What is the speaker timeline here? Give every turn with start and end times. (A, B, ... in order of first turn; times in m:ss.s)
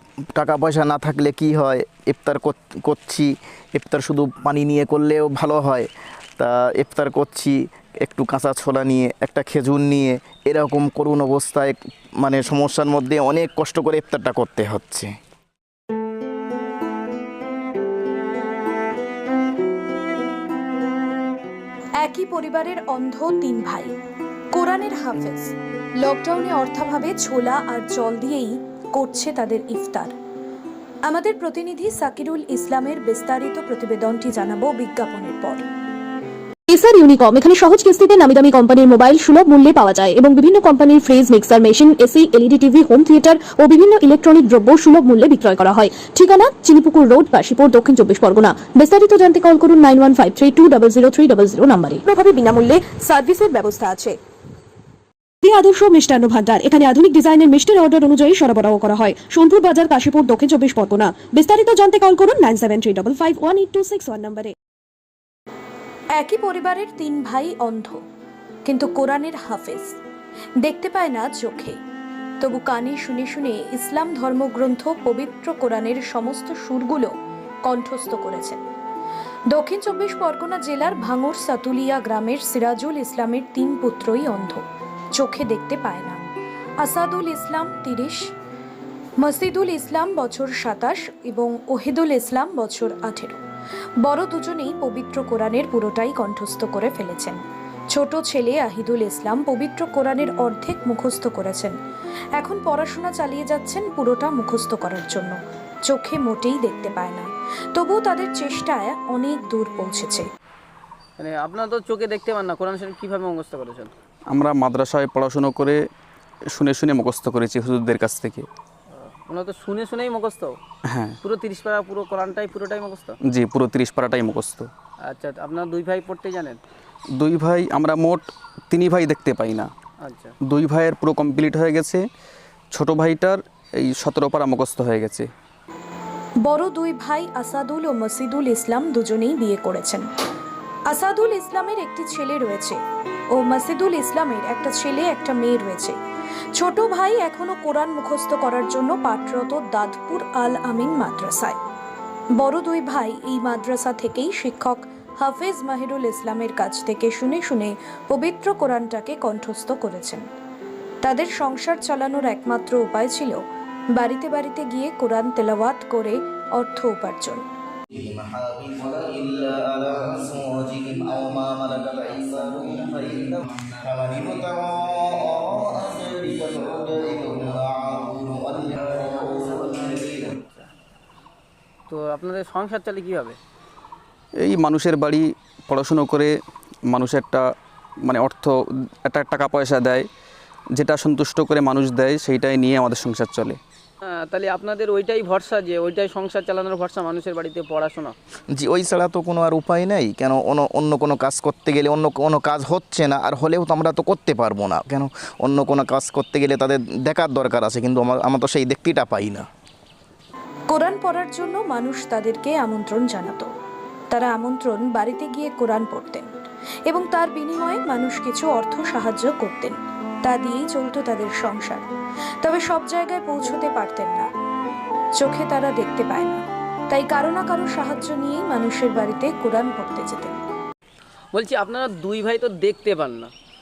0:00.3-0:05.9 A
0:06.4-0:15.1 A
0:22.0-0:23.9 B
0:24.5-0:30.1 B
0:31.1-0:35.6 B
0:36.7-0:52.9 C
0:52.4-0:54.1 B
0:53.5-0:53.9 C
0:55.4-1:04.5 C
1:06.2-1:08.0 B
1:08.6-1:09.9 B
1:10.6-1:11.8 B
1:12.4-1:17.1 B
1:17.6-1:18.6 B
1:19.5-1:24.6 B
1:25.2-1:26.2 B
1:26.8-1:28.2 B
1:29.2-1:33.4 B
1:34.0-1:37.4 B
1:37.9-1:41.7 B
1:42.4-1:45.4 B
1:45.9-1:50.3 B
1:51.2-1:53.9 D
1:54.3-1:55.8 E
1:56.5-1:58.5 E
1:58.9-2:00.6 D
2:00.8-2:01.2 E
2:01.2-2:03.2 D
2:03.2-2:04.7 E
2:05.1-2:06.6 D
2:07.2-2:09.7 E
2:10.0-2:10.4 D
2:10.4-2:12.0 E
2:12.7-2:15.3 E
2:16.4-2:20.1 B
2:20.9-2:22.8 B
2:23.4-2:26.0 B
2:26.6-2:31.6 B
2:32.4-2:40.2 B
2:41.0-2:43.4 B
2:43.9-2:47.4 B
2:47.9-3:00.3 A
2:59.1-3:00.7 D
3:01.9-3:03.4 D
3:04.4-3:06.3 E
3:06.9-3:07.5 E
3:08.0-3:10.1 E
3:10.8-3:13.6 E
3:14.2-3:18.2 D
3:18.5-3:29.4 A
3:30.7-3:33.5 B
3:34.1-3:36.3 B
3:36.9-3:41.8 B
3:42.4-3:44.3 B
3:45.2-3:50.4 B
3:51.3-3:53.3 D